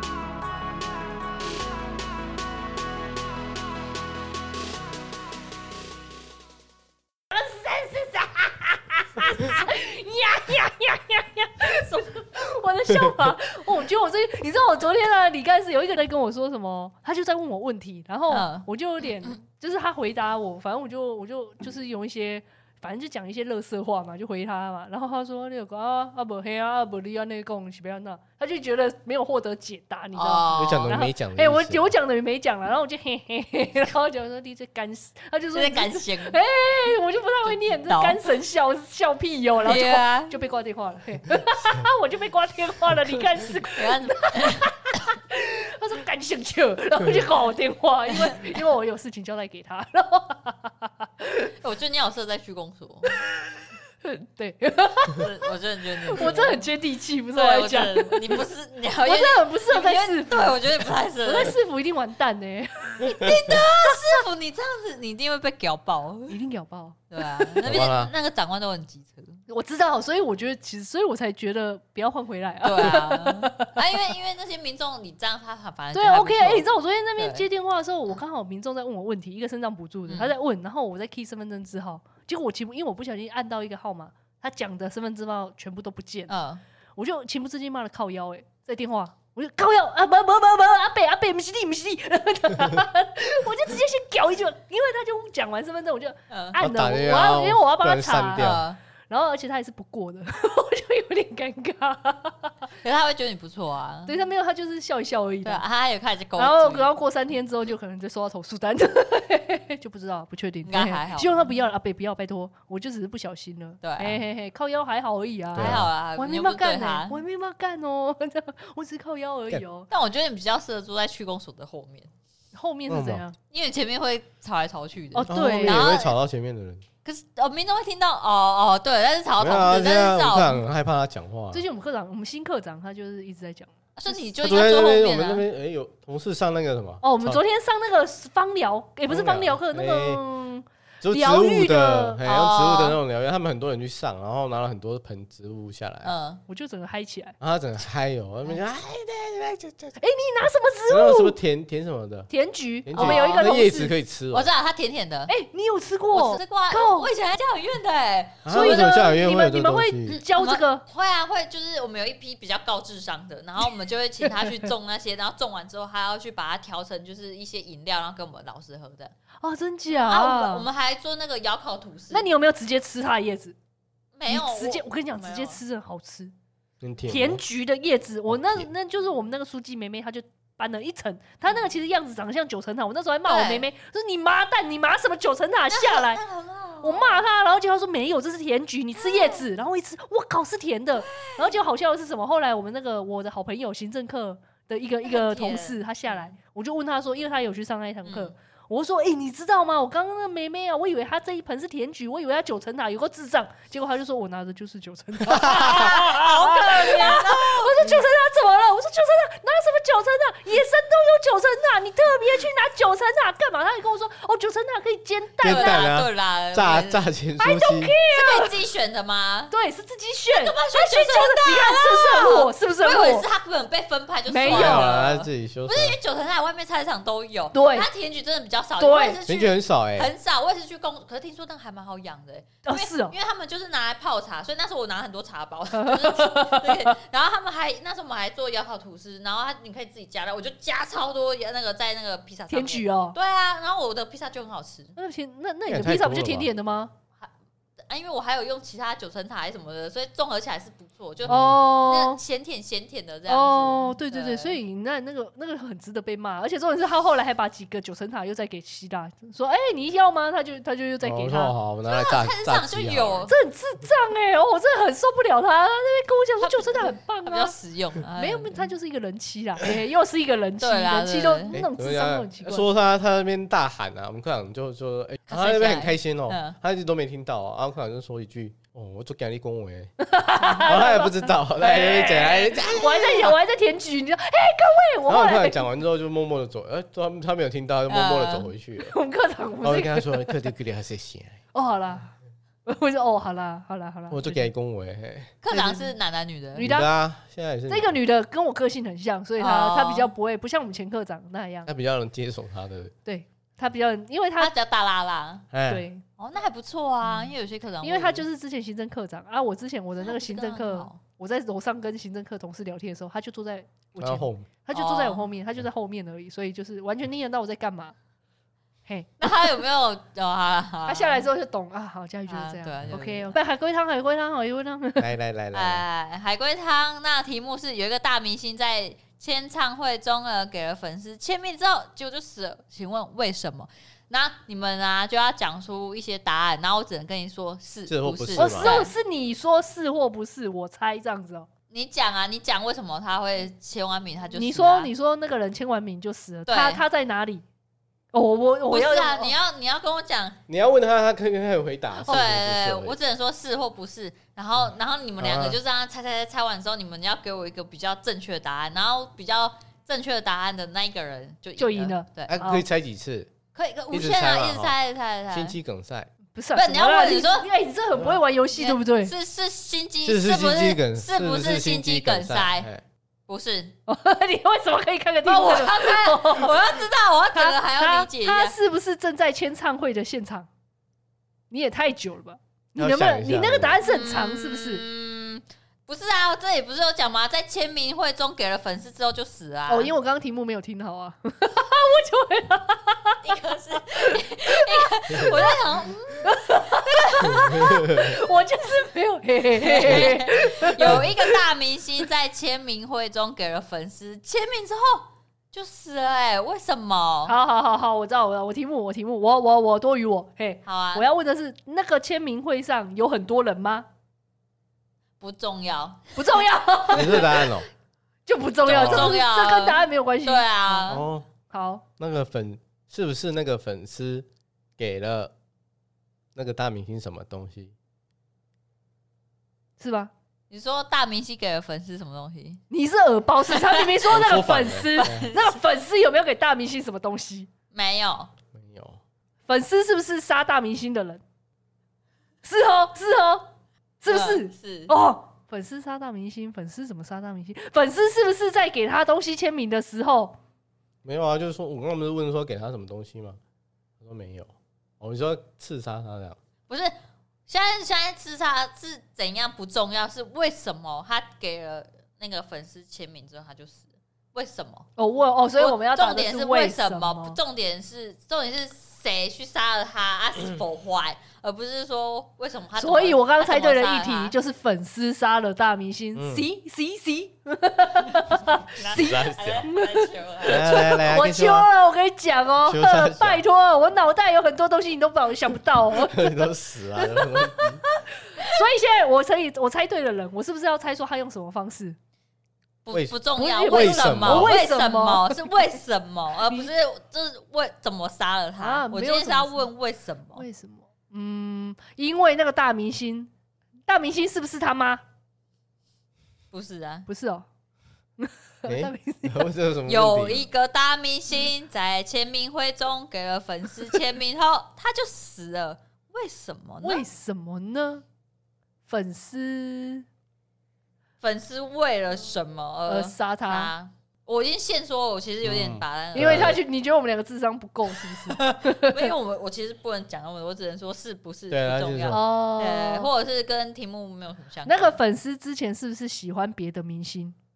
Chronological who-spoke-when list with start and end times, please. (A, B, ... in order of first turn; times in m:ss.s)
0:07.3-0:51.5 A
0:11.9-0:12.2 B
0:18.3-0:18.6 B
0:30.1-0:30.9 B
0:30.5-0:31.9 C
0:35.5-0:36.4 B
0:37.4-0:38.2 B
0:39.6-0:40.4 B
0:43.4-0:44.8 B
0:48.1-0:48.4 B
0:51.6-0:53.2 B
0:54.0-0:55.3 A
0:55.2-0:56.6 B
0:56.1-0:58.4 A
0:57.3-1:01.6 B
0:59.0-1:00.6 A
1:01.2-1:03.6 A
1:03.0-1:06.4 B
1:03.0-1:03.4 C
1:06.3-1:07.6 A
1:07.1-1:09.4 B
1:07.6-1:08.1 C
1:09.5-1:13.8 A
1:12.6-1:17.4 B
1:15.9-1:26.3 A
1:20.1-1:20.3 B
1:26.3-1:26.6 B
1:27.0-1:38.5 A
1:36.3-1:36.6 B
1:36.6-1:38.6 C
1:38.3-1:38.8 B
1:39.1-1:42.5 A
1:42.8-1:44.1 B
1:44.1-1:45.6 A
1:45.4-1:46.9 B
1:46.4-1:59.9 A
1:50.6-1:51.5 B
1:53.8-1:54.2 B
1:55.5-1:55.9 C
1:55.6-1:57.2 B
1:59.9-2:02.1 B
2:02.5-2:03.4 A
2:02.9-2:03.2 C
2:03.5-2:06.1 B
2:05.1-2:05.9 A
2:05.3-2:06.8 C
2:07.0-2:10.6 B
2:09.4-2:11.6 C
2:11.5-2:13.7 A
2:14.0-2:15.4 B
2:14.4-2:17.4 C
2:17.0-2:22.2 A
2:19.1-2:20.2 C
2:21.0-2:26.1 C
2:22.2-2:23.0 B
2:26.0-2:26.4 B
2:26.5-2:27.4 A
2:27.4-2:30.0 C
2:30.0-2:31.4 A
2:30.9-2:32.3 C
2:32.3-2:33.9 A
2:32.8-2:34.5 C
2:32.9-2:33.5 B
2:34.3-2:35.3 B
2:35.3-2:37.1 A
2:36.1-2:39.0 B
2:38.4-2:40.2 C
2:38.5-2:40.8 A
2:40.1-2:49.1 B
2:44.2-2:44.7 A
2:49.4-2:50.7 A
2:49.9-2:52.3 B
2:52.1-2:53.6 A
2:54.1-2:55.6 B
2:54.3-2:56.3 A
2:56.8-2:57.4 C
2:57.1-3:06.2 A
2:58.3-2:58.7 C
3:03.2-3:03.7 B
3:05.7-3:07.3 B
3:06.8-3:35.9 A
3:09.0-3:09.4 B
3:11.0-3:11.6 B
3:15.0-3:16.3 B
3:18.0-3:18.3 B
3:25.3-3:25.9 C
3:25.4-3:27.8 B
3:35.4-3:38.0 C
3:35.4-3:37.1 B
3:37.4-3:38.5 A
3:38.1-3:39.5 B
3:39.5-3:43.2 A
3:40.3-4:05.0 B
3:44.3-3:44.9 A
3:44.4-3:46.0 C
3:47.5-3:47.9 A
3:48.8-3:49.2 A
3:49.2-3:50.1 C
3:52.6-3:53.1 A
3:55.7-3:56.9 A
4:02.5-4:03.2 A
4:05.0-4:06.9 A
4:05.7-4:06.5 C
4:07.9-4:14.6 B
4:11.2-4:11.6 C
4:11.3-4:12.2 A
4:13.3-4:21.5 A
4:21.0-4:23.2 C
4:21.9-4:23.3 B
4:23.2-4:27.5 A
4:26.4-4:28.7 B
4:28.1-4:32.6 A
4:30.6-4:31.5 B
4:31.5-4:39.9 C
4:35.3-4:36.6 B
4:40.0-4:45.6 A
4:40.6-4:43.3 C
4:45.1-4:48.9 C
4:47.9-4:48.5 B
4:48.8-4:50.5 A
4:49.6-4:51.4 C
4:51.5-4:54.5 A
4:54.1-4:55.9 C
4:55.4-4:56.7 B
4:56.6-4:56.9 A
4:56.6-4:57.9 C
4:57.7-5:01.7 A
4:59.4-5:00.1 B
5:01.7-5:02.9 C
5:03.0-5:04.5 A
5:04.4-5:05.5 B
5:05.5-5:05.8 C
5:05.6-5:06.0 A
5:06.2-5:08.2 B
5:07.0-5:17.9 A
5:10.0-5:11.0 B
5:14.0-5:14.5 C
5:14.7-5:15.2 B
5:18.8-5:19.5 A
5:19.2-5:21.2 B
5:20.8-5:25.1 A
5:22.3-5:23.4 B
5:25.0-5:25.8 C
5:25.5-5:38.9 B
5:37.9-5:38.7 C
5:38.4-5:41.5 A
5:41.7-5:44.9 B
5:44.3-5:47.4 A
5:46.5-5:46.8 B
5:48.1-5:49.3 A
5:48.7-5:50.4 B
5:50.5-5:53.0 C
5:52.0-6:02.4 B
5:55.2-5:55.6 C
6:01.6-6:02.6 A
6:02.3-6:03.3 C
6:03.5-6:05.6 B
6:03.9-6:04.7 C
6:05.3-6:06.1 C
6:06.3-6:09.1 A
6:06.5-6:07.5 B
6:08.6-6:12.7 B
6:10.0-6:12.8 C
6:13.3-6:13.7 B
6:13.9-6:16.8 A
6:15.2-6:18.5 B
6:17.3-6:20.5 A
6:21.5-6:24.8 A
6:22.8-6:23.7 C
6:23.8-6:29.9 B
6:29.7-6:33.2 A
6:33.2-6:36.3 B
6:34.0-6:35.6 A
6:36.2-6:41.4 A
6:36.8-6:37.6 B
6:37.3-6:38.2 C
6:39.5-6:47.3 B
6:39.8-6:40.1 C
6:47.2-6:53.9 A
6:50.6-6:51.0 B
6:55.2-6:56.0 B
6:56.2-6:57.5 A
6:56.9-6:57.7 C
6:58.2-7:00.9 A
6:58.6-6:59.2 C
6:58.7-7:01.0 B
7:00.9-7:01.2 C
7:01.5-7:01.8 A
7:02.0-7:04.3 C
7:04.8-7:05.3 C
7:06.3-7:07.7 C
7:09.8-7:10.1 A
7:10.5-7:12.6 B
7:12.7-7:17.5 A
7:13.5-7:13.9 B
7:14.1-7:15.3 C
7:15.0-7:15.5 B
7:17.7-7:18.3 B
7:18.5-7:19.0 C
7:19.5-7:21.2 A
7:22.4-7:23.5 A
7:24.0-7:30.4 A
7:24.1-7:24.9 B
7:31.0-7:33.4 C
7:34.0-7:36.4 C
7:36.7-7:36.9 B
7:37.5-7:44.9 B
7:45.0-7:47.4 A
7:45.6-7:54.3 B
7:52.8-8:12.0 A
7:56.1-7:56.4 C
7:58.7-8:00.8 B
7:58.9-7:59.7 C
8:00.5-8:01.7 C
8:02.6-8:03.4 C
8:05.9-8:07.8 C
8:12.8-8:20.4 B
8:12.9-8:14.5 C
8:13.4-8:15.4 A
8:18.6-8:19.6 A
8:20.4-8:23.3 A
8:23.9-8:25.0 A
8:26.5-8:27.1 B
8:27.1-8:27.5 A
8:28.2-8:29.5 A
8:28.6-8:30.4 C
8:29.9-8:37.0 B
8:36.8-8:38.0 A
8:38.8-8:40.0 A
8:41.2-8:46.6 B
8:42.9-8:43.7 A
8:45.4-8:46.6 C
8:46.1-8:49.1 A
8:48.0-8:55.0 B
8:51.5-8:52.2 C
8:52.1-8:53.1 A
8:54.6-8:57.4 A